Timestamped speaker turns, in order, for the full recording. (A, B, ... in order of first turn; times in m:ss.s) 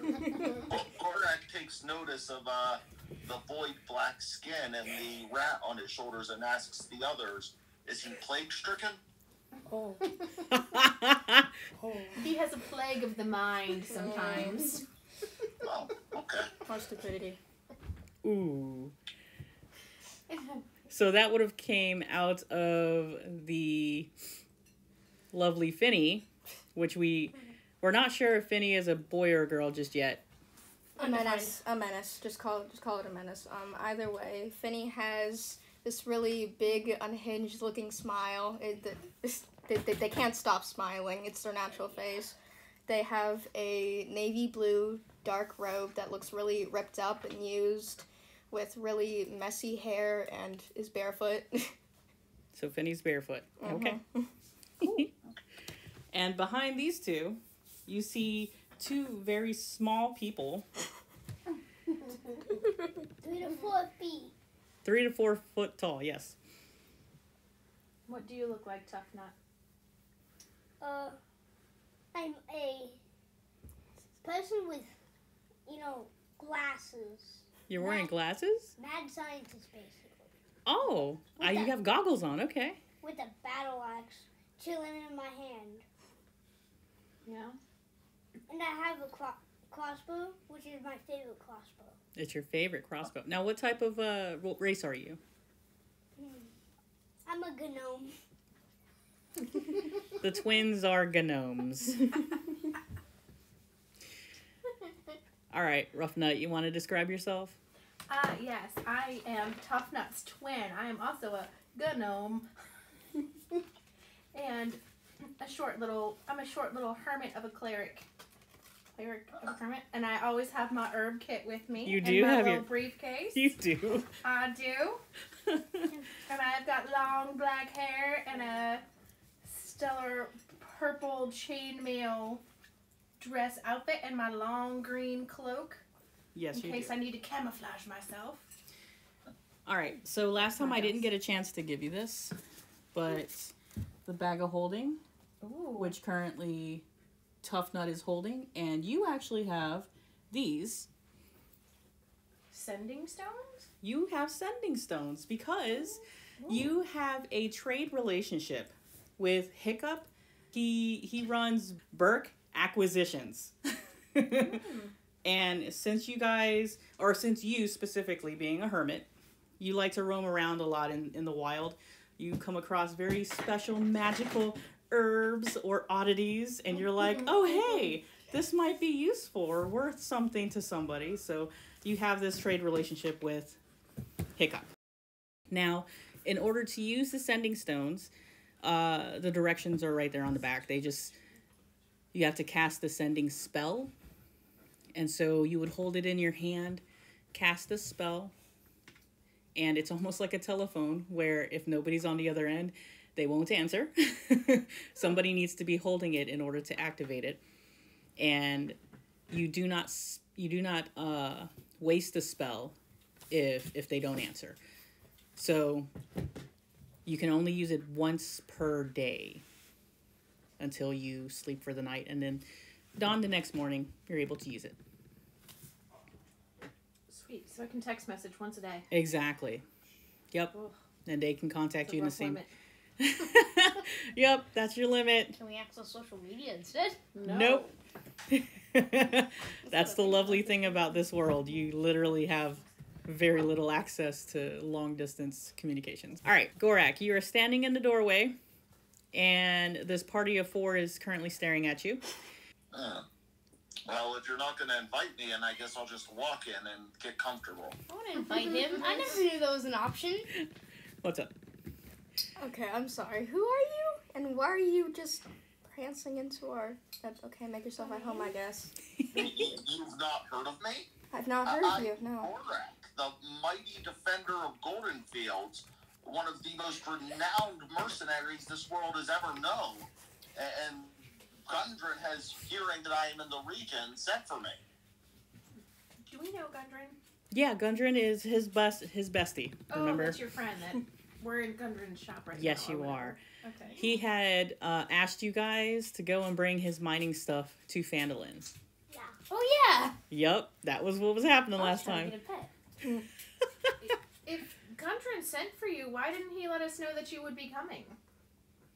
0:00.5-0:09.0 A
0:09.7-0:10.0 B
0:10.5-0:11.5 C
0:11.8-0:12.2 D
0:11.9-0:12.2 B
0:12.2-0:14.8 E
0:13.9-0:14.8 B
0:15.6-0:16.5 A
0:16.7-0:17.4 B
0:18.2-0:18.9 C
0:20.3-0:20.6 E
0:20.9-0:24.1 C
0:25.3-0:30.2 C
0:31.0-0:42.4 B
0:31.0-0:31.6 D
0:42.9-0:51.7 B
0:52.5-0:54.0 C
0:53.6-0:54.3 B
0:54.8-0:55.1 C
0:56.1-1:00.7 C
1:03.2-1:04.3 F
1:04.8-1:06.4 C
1:08.1-1:09.3 E
1:10.8-1:11.2 F
1:12.1-1:13.0 F
1:14.2-1:14.9 F
1:15.7-1:18.1 F
1:17.7-1:18.7 C
1:18.8-1:20.3 F
1:20.7-1:22.8 C
1:21.4-1:21.7 F
1:23.0-1:25.8 F
1:27.2-1:27.6 E
1:28.5-1:32.0 F
1:32.2-1:35.2 C
1:36.2-1:36.5 F
1:37.2-1:38.2 F
1:40.2-1:42.1 C
1:45.5-1:47.6 C
1:48.1-1:52.5 E
1:54.3-1:54.8 E
1:55.4-1:58.1 E
1:59.0-2:03.4 E
2:01.8-2:02.7 C
2:03.4-2:04.1 C
2:04.2-2:05.0 E
2:05.5-2:05.9 C
2:06.3-2:08.8 E
2:09.4-2:12.4 E
2:13.2-2:15.8 E
2:16.3-2:17.0 C
2:16.5-2:18.5 E
2:19.7-2:22.3 C
2:20.4-2:21.1 E
2:22.9-2:23.5 C
2:24.1-2:25.0 C
2:25.4-2:26.0 E
2:25.8-2:26.8 C
2:27.4-2:30.9 C
2:32.5-2:33.7 E
2:33.8-2:43.6 C
2:36.4-2:36.7 E
2:44.2-2:44.6 C
2:44.3-2:44.9 E
2:45.2-3:03.6 C
2:56.9-2:57.8 E
3:04.4-3:04.7 C
3:05.5-3:08.1 C
3:08.6-3:11.2 C
3:12.1-3:13.9 C
3:15.0-3:18.3 C
3:19.6-3:27.4 C
3:28.2-3:28.8 C
3:29.3-3:32.8 C
3:33.3-3:34.6 C
3:35.4-3:35.9 C
3:37.1-3:39.4 C
3:40.6-3:42.4 C
3:43.0-3:44.8 C
3:47.1-3:48.9 E
3:48.9-3:49.6 C
3:51.1-3:52.4 C
3:51.8-3:52.5 E
3:53.0-3:55.4 C
3:55.4-3:57.0 D
3:57.2-3:57.7 E
3:57.2-3:57.7 C
3:58.3-4:08.4 C
3:59.7-4:00.5 D
4:09.1-4:12.0 C
4:12.7-4:13.0 A
4:13.9-4:17.8 A
4:17.9-4:20.3 D
4:18.4-4:18.7 E
4:21.0-4:21.3 C
4:22.4-4:28.7 B
4:27.8-4:28.3 D
4:29.0-4:29.3 C
4:29.1-4:30.9 A
4:31.1-4:32.3 B
4:31.4-4:44.6 A
4:46.1-4:47.0 E
4:47.3-4:50.2 C
4:49.7-4:53.8 E
4:52.3-4:53.2 C
4:53.8-4:58.5 C
4:58.9-4:59.2 F
4:59.3-4:59.9 D
5:00.1-5:02.2 C
5:01.6-5:02.5 D
5:03.8-5:08.0 E